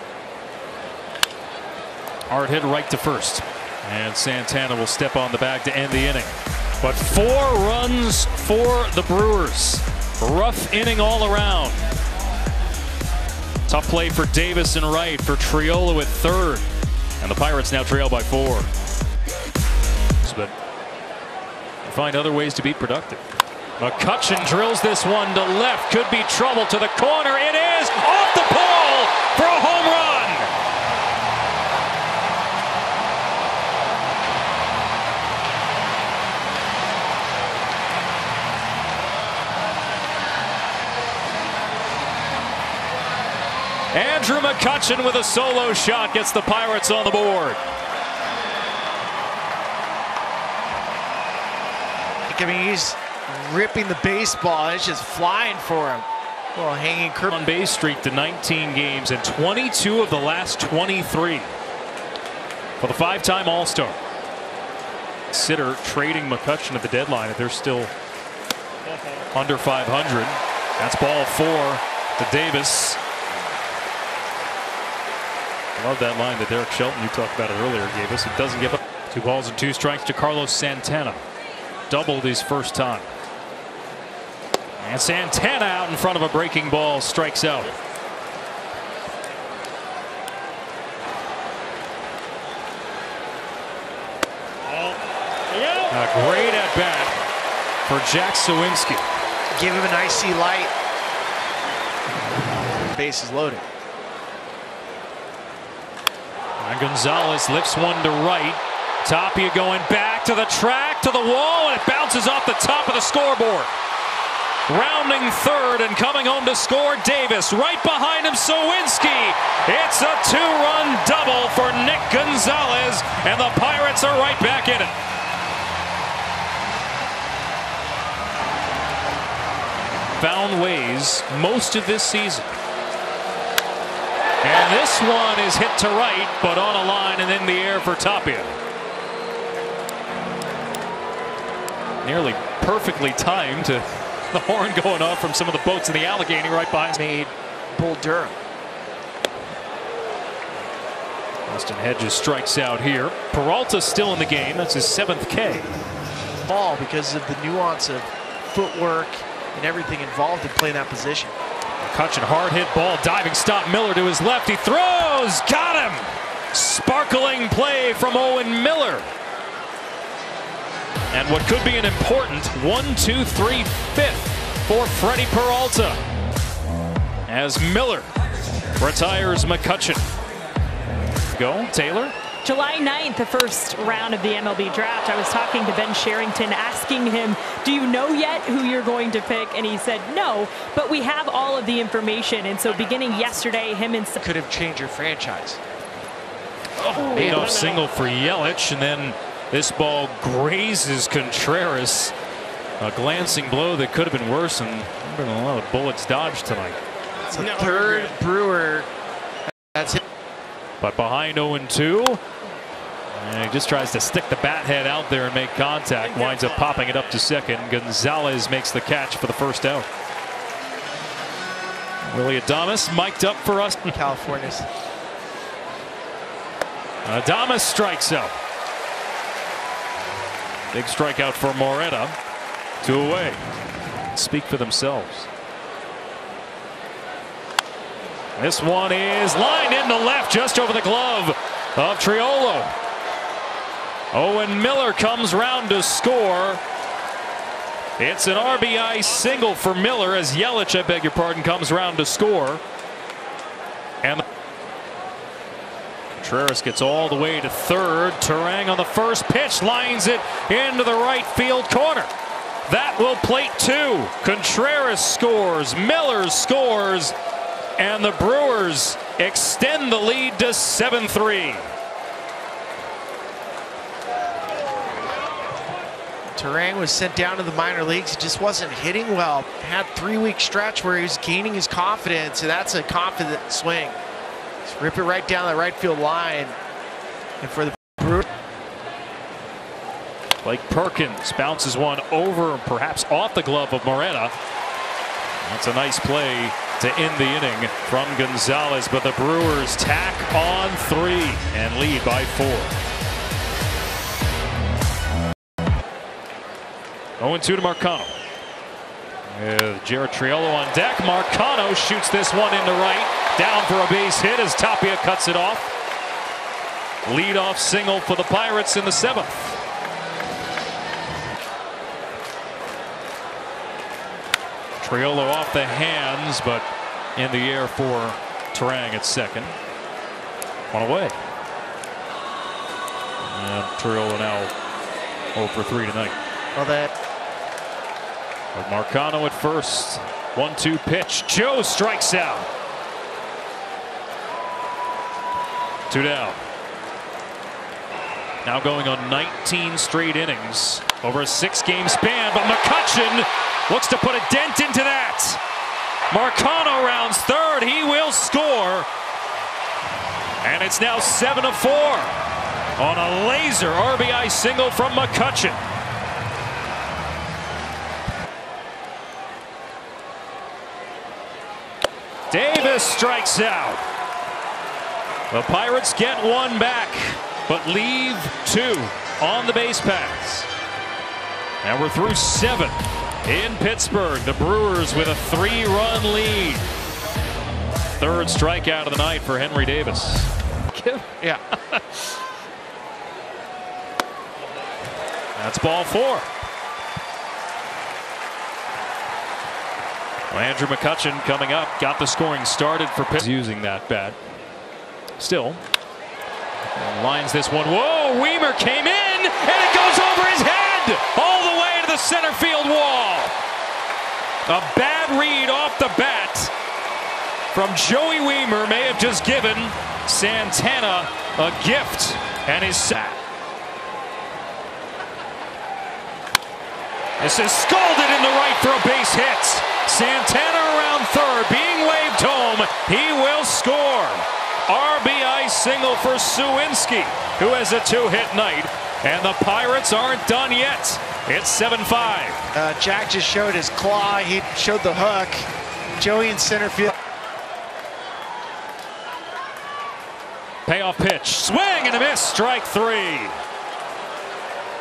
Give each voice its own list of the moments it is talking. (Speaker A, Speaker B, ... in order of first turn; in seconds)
Speaker A: 2.3-11.8, 13.7-16.7, 17.2-18.7, 20.2-20.5, 21.8-23.2, 23.8-30.5, 43.9-47.6, 57.3-61.5, 62.8-64.0, 65.3-67.9, 69.3-73.0, 75.8-81.2, 81.9-83.1, 84.8-87.7, 95.9-97.1, 97.8-99.0, 106.6-113.7, 114.7-124.9, 130.1-132.5, 134.4-138.5, 142.0-147.0, 151.5-155.6, 161.8-169.1, 171.1-176.0, 177.3-178.1, 178.8-180.0, 181.3-182.1, 196.8-202.1, 202.8-206.8, 210.8-212.2, 213.1-219.9, 222.0-224.0, 227.0-228.3, 230.7-232.2, 232.8-233.4, 234.1-235.3, 238.3-242.7, 244.1-246.6, 248.0-252.6, 256.1-262.1, 262.6-267.1, 267.8-271.7, 290.4-294.3, 295.4-302.7, 307.2-308.1, 309.3-315.7, 317.0-319.6, 324.8-329.6, 330.7-331.2, 333.2-334.5, 335.3-336.2, 338.5-342.5, 345.9-346.4, 348.4-355.4, 356.1-358.9, 360.4-362.1, 362.8-365.6, 372.3-373.8, 375.3-380.5, 381.6-386.7, 388.0-391.1, 395.3-396.2, 400.3-404.2, 405.2-405.6, 406.7-413.4, 414.5-416.5, 417.5-423.0, 427.2-442.4, 450.6-453.4
Speaker B: 52.3-57.4, 99.5-100.7, 102.9-103.6, 146.9-148.4, 156.5-161.3, 194.2-195.6, 207.3-208.9, 209.7-210.0, 223.9-224.7, 276.3-284.0, 284.6-286.6, 287.4-288.2, 336.5-336.9, 442.5-445.5, 446.0-446.9
Speaker C: 182.4-194.2